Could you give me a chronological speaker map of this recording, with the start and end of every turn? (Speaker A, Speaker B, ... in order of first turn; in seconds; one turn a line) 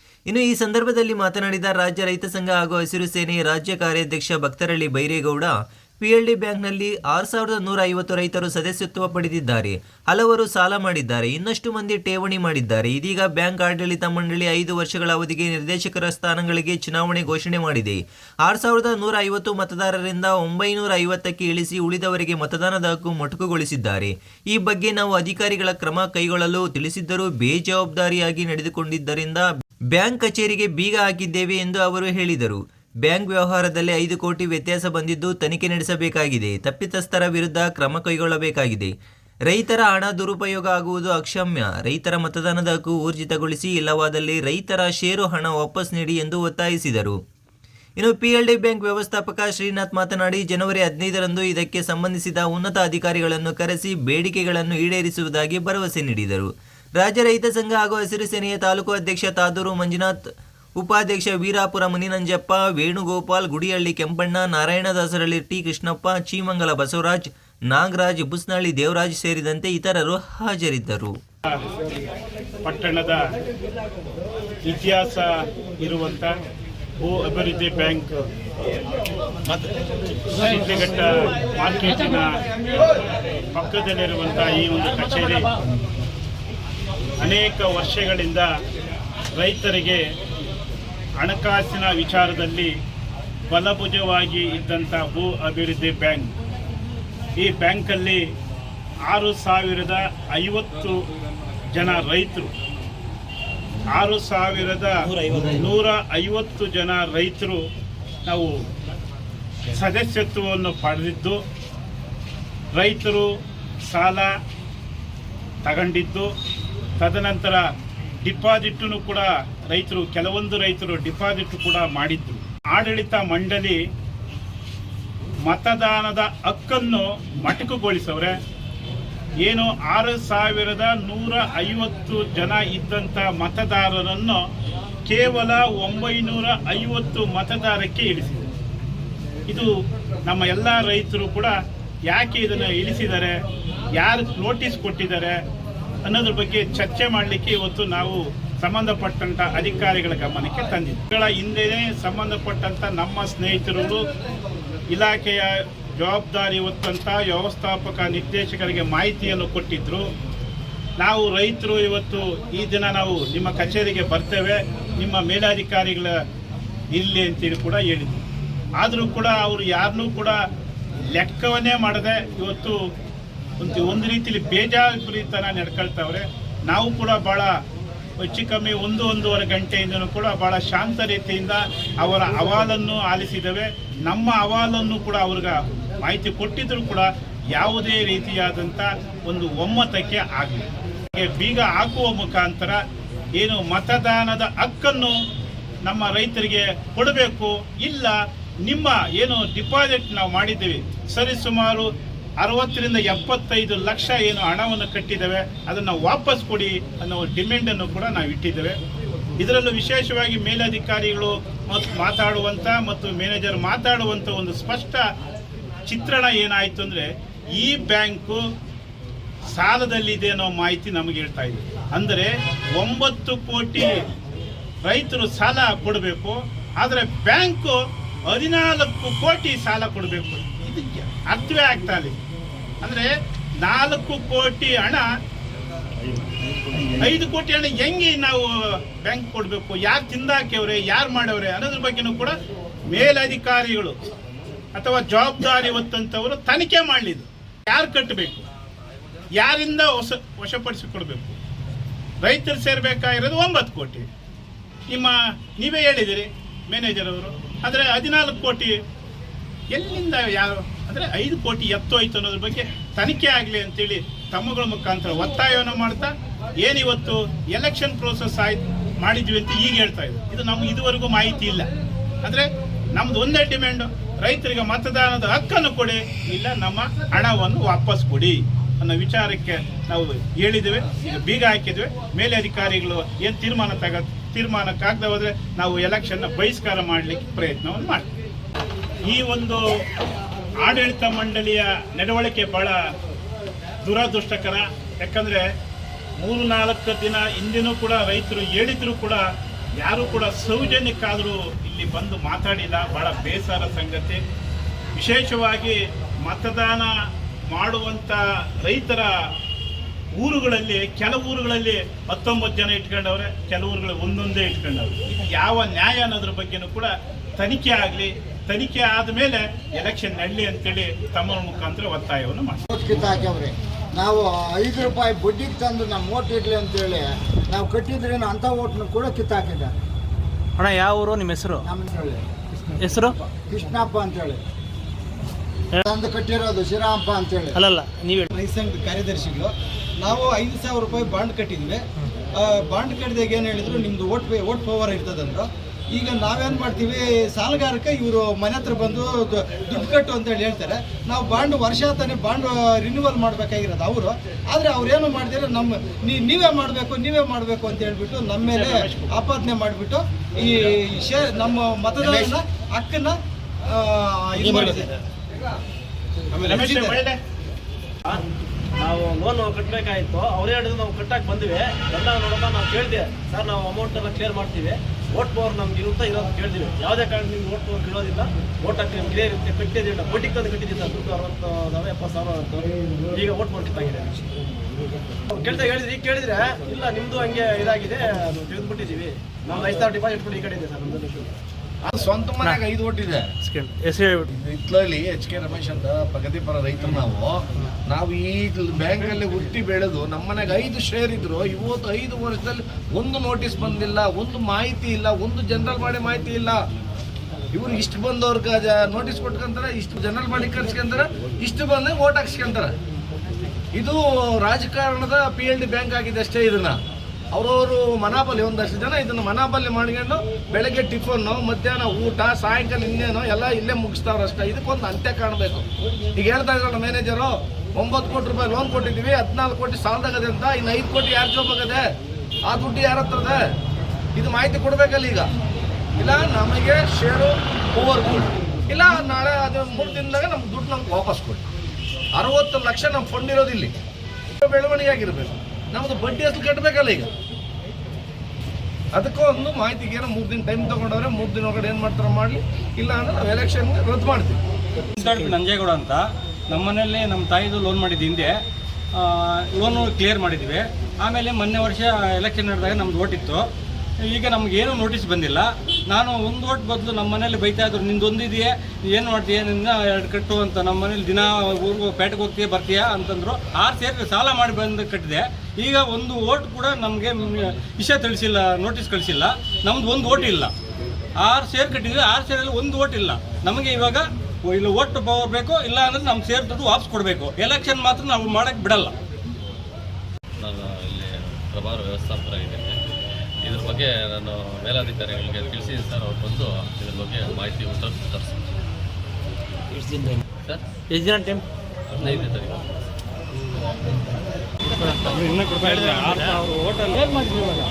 Speaker A: 0.3-38.9
Speaker A: 39.5-47.2
Speaker A: 48.0-60.2
Speaker A: 60.8-71.2
Speaker B: 72.6-73.2
Speaker B: 74.7-76.3
Speaker B: 77.0-78.2
Speaker B: 80.4-82.3
Speaker B: 83.5-85.5
Speaker B: 87.2-88.5
Speaker B: 89.4-90.0
Speaker B: 91.2-92.7
Speaker B: 93.5-96.3
Speaker B: 97.4-98.2
Speaker B: 99.1-101.0
Speaker B: 101.7-102.5
Speaker B: 104.0-107.6
Speaker B: 108.3-108.6
Speaker B: 109.7-111.4
Speaker B: 112.8-113.3
Speaker B: 113.9-114.3
Speaker B: 115.7-116.3
Speaker B: 117.0-117.6
Speaker B: 118.2-123.8
Speaker B: 125.5-128.4
Speaker B: 129.4-134.4
Speaker B: 135.1-138.5
Speaker B: 140.3-141.5
Speaker B: 142.1-143.3
Speaker B: 144.0-145.3
Speaker B: 146.1-154.0
Speaker B: 154.9-160.1
Speaker B: 161.0-166.1
Speaker B: 166.9-168.2
Speaker B: 168.8-170.4
Speaker B: 171.2-172.8
Speaker B: 173.6-177.5
Speaker B: 178.2-192.8
Speaker B: 193.4-195.1
Speaker B: 195.9-201.9
Speaker B: 202.4-208.8
Speaker B: 209.4-215.0
Speaker B: 215.9-217.1
Speaker B: 217.6-218.4
Speaker B: 219.6-223.9
Speaker B: 224.9-227.8
Speaker B: 228.3-232.2
Speaker B: 232.8-233.1
Speaker B: 233.6-235.1
Speaker B: 237.0-238.5
Speaker B: 239.0-242.3
Speaker B: 242.9-244.0
Speaker B: 244.8-248.5
Speaker B: 249.4-251.4
Speaker B: 252.2-254.1
Speaker B: 254.9-258.7
Speaker B: 259.7-266.1
Speaker B: 266.6-271.7
Speaker B: 272.2-288.1
Speaker B: 289.1-289.6
Speaker B: 290.6-292.8
Speaker B: 293.9-295.4
Speaker B: 296.2-299.2
Speaker B: 299.8-304.2
Speaker B: 305.0-306.9
Speaker B: 307.5-309.1
Speaker B: 310.2-322.6
Speaker C: 322.7-329.7
Speaker D: 330.6-331.7
Speaker C: 331.6-332.2
Speaker D: 332.8-333.2
Speaker C: 333.5-334.4
Speaker C: 335.9-337.6
Speaker D: 337.5-338.3
Speaker E: 338.3-341.8
Speaker E: 342.4-363.2
Speaker B: 358.5-359.1
Speaker E: 363.7-364.9
Speaker B: 366.4-367.2
Speaker E: 366.5-367.0
Speaker F: 368.8-384.3
Speaker F: 385.3-391.3
Speaker G: 391.9-393.3
Speaker D: 393.4-394.3
Speaker G: 394.3-406.6
Speaker G: 407.6-412.7
Speaker G: 413.7-416.8
Speaker G: 417.3-431.8
Speaker G: 432.5-433.4
Speaker G: 434.2-435.3
Speaker G: 436.0-441.5
Speaker G: 442.2-443.7
Speaker G: 444.4-447.1
Speaker G: 448.9-454.4
Speaker H: 455.0-458.4
Speaker H: 459.0-463.4
Speaker H: 464.1-480.5
Speaker H: 481.2-488.9
Speaker I: 490.4-492.8
Speaker I: 493.4-498.4
Speaker D: 500.9-501.4
Speaker I: 501.9-502.6
Speaker H: 504.7-507.3
Speaker F: 507.2-507.5